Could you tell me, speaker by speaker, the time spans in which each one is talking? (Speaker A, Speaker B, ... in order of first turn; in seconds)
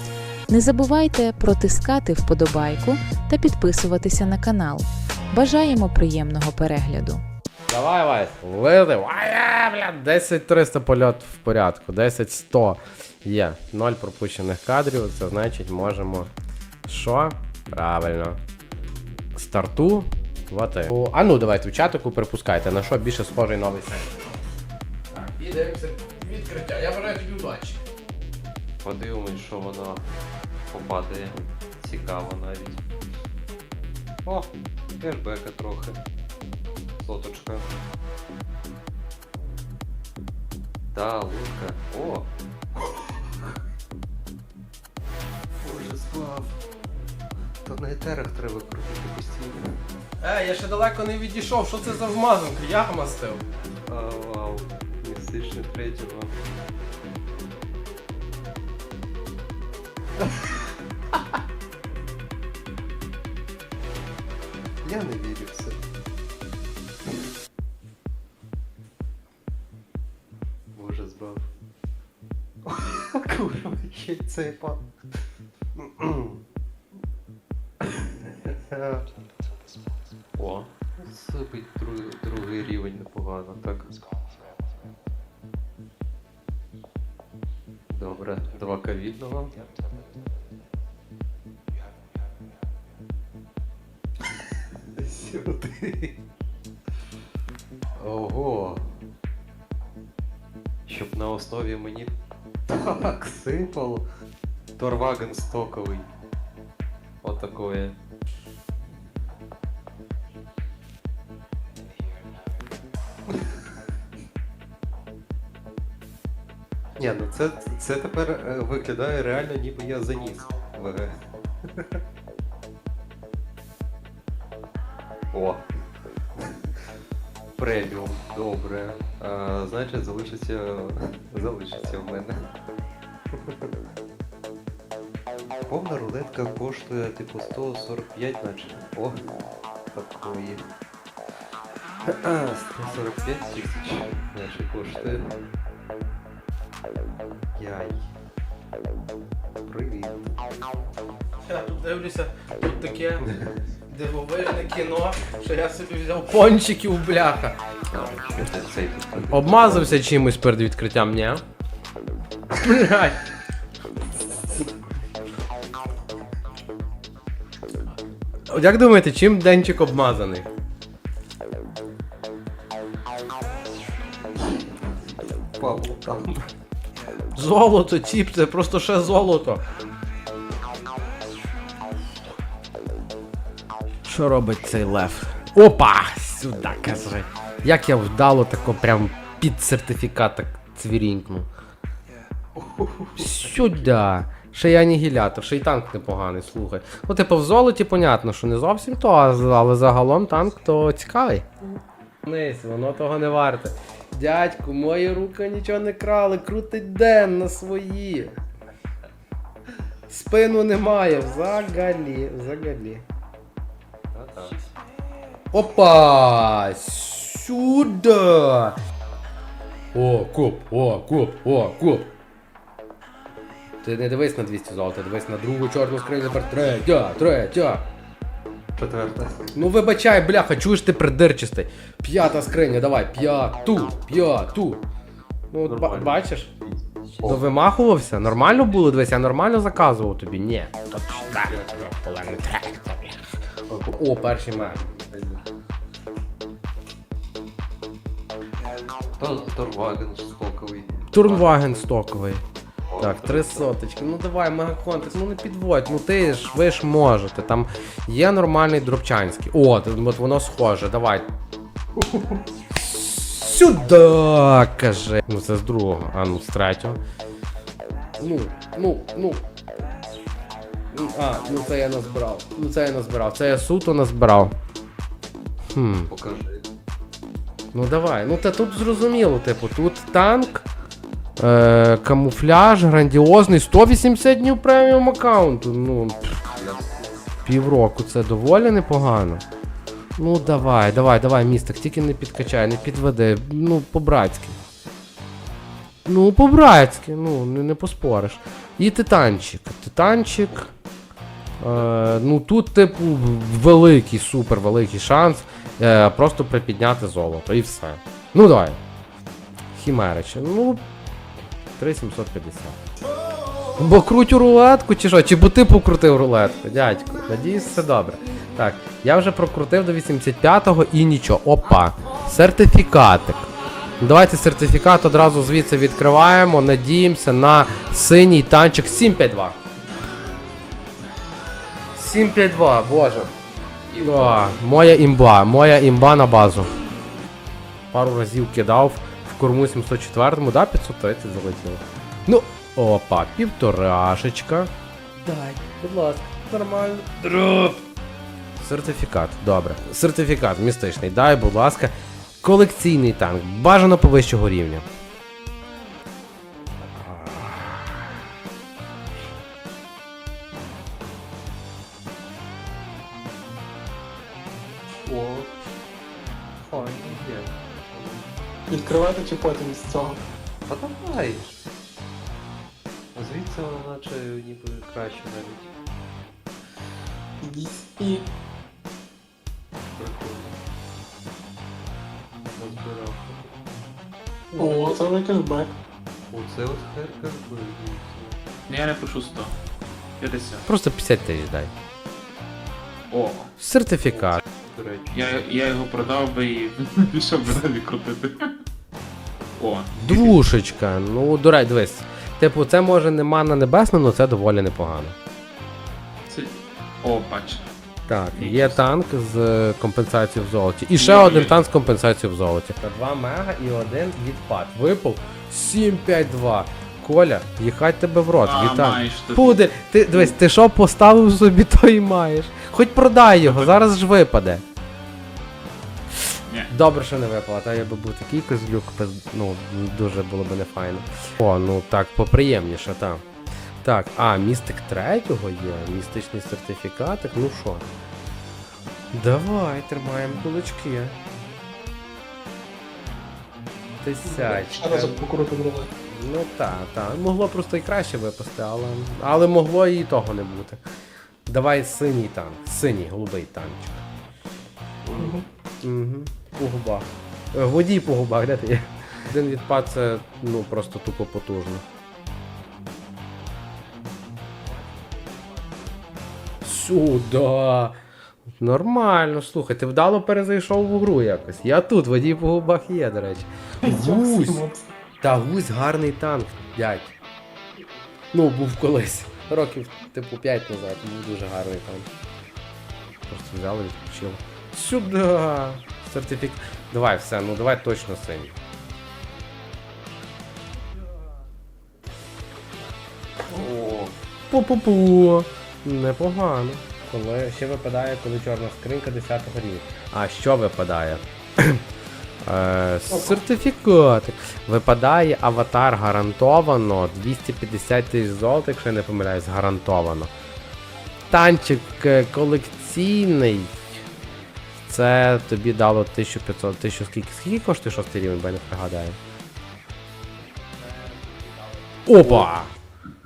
Speaker A: 0.5-7.2
Speaker B: 7.7-16.3, 16.8-18.4, 19.3-24.2, 25.1-27.8, 50.2-53.4, 151.4-153.3, 153.9-157.6, 159.3-161.4, 162.5-163.2, 168.5-170.5, 177.3-179.6, 184.0-191.5, 193.2-201.4, 202.2-208.3, 210.1-213.0, 215.5-218.8, 219.9-222.1, 223.8-227.8, 229.5-234.8, 235.5-236.5, 237.2-243.2, 243.9-244.8, 251.1-252.4, 253.0-261.3, 262.7-267.0, 268.2-269.4, 270.9-274.5, 275.7-276.1, 277.7-280.6, 281.4-286.4, 287.4-289.4, 290.2-294.6, 296.1-300.7, 301.6-308.8, 309.7-310.8, 311.8-312.8, 313.8-323.5, 324.0-329.6, 331.9-333.3, 333.9-336.7, 337.9-347.8, 348.6-354.9, 356.8-358.1, 390.6-391.7, 393.6-394.4, 399.9-405.1, 408.1-424.6, 426.7-433.2, 433.8-437.9, 439.1-441.2, 444.0-445.2, 446.1-450.8, 451.4-454.0, 455.1-461.8, 466.6-467.9, 468.6-474.6, 475.2-477.1, 478.3-482.1, 483.3-488.6, 494.5-501.8, 502.4-510.3, 511.3-513.8, 514.9-519.2, 522.0-522.7
Speaker C: 28.8-30.0, 30.7-32.8, 34.2-36.0, 37.0-37.7, 40.9-42.3, 45.6-46.5, 47.6-49.8, 53.9-56.4, 64.8-65.8, 70.7-71.5, 72.7-74.9, 75.8-76.4, 77.8-79.0, 80.3-84.0, 87.9-89.5, 95.0-96.1, 98.0-98.9, 100.8-102.1, 102.7-104.0, 104.8-106.1, 107.2-107.9, 117.0-121.1, 121.7-122.0, 125.3-125.6, 127.5-132.5, 135.6-139.2, 139.9-140.6, 142.1-145.3, 147.5-148.1, 149.7-150.5, 157.9-159.9, 175.4-176.5, 192.6-193.4, 214.1-214.6, 228.8-229.5, 235.7-237.4, 241.3-241.9, 243.7-245.4, 249.2-251.5, 252.9-253.7, 276.1-276.6, 286.5-287.1, 365.0-365.5, 366.6-368.3, 370.7-371.6, 373.1-375.7, 379.9-380.6, 382.5-383.7, 386.3-388.5, 394.1-396.2, 493.6-494.1, 522.2-522.5
Speaker D: 333.9-334.5, 388.7-389.5, 390.2-390.6, 393.1-393.5, 395.1-398.5, 399.6-400.3, 406.3-407.6, 408.3-408.8, 410.9-411.6, 418.4-419.6, 423.4-423.7
Speaker E: 368.7-370.2, 377.4-378.2, 384.5-385.7, 444.3-445.9, 455.2-455.4, 473.8-474.8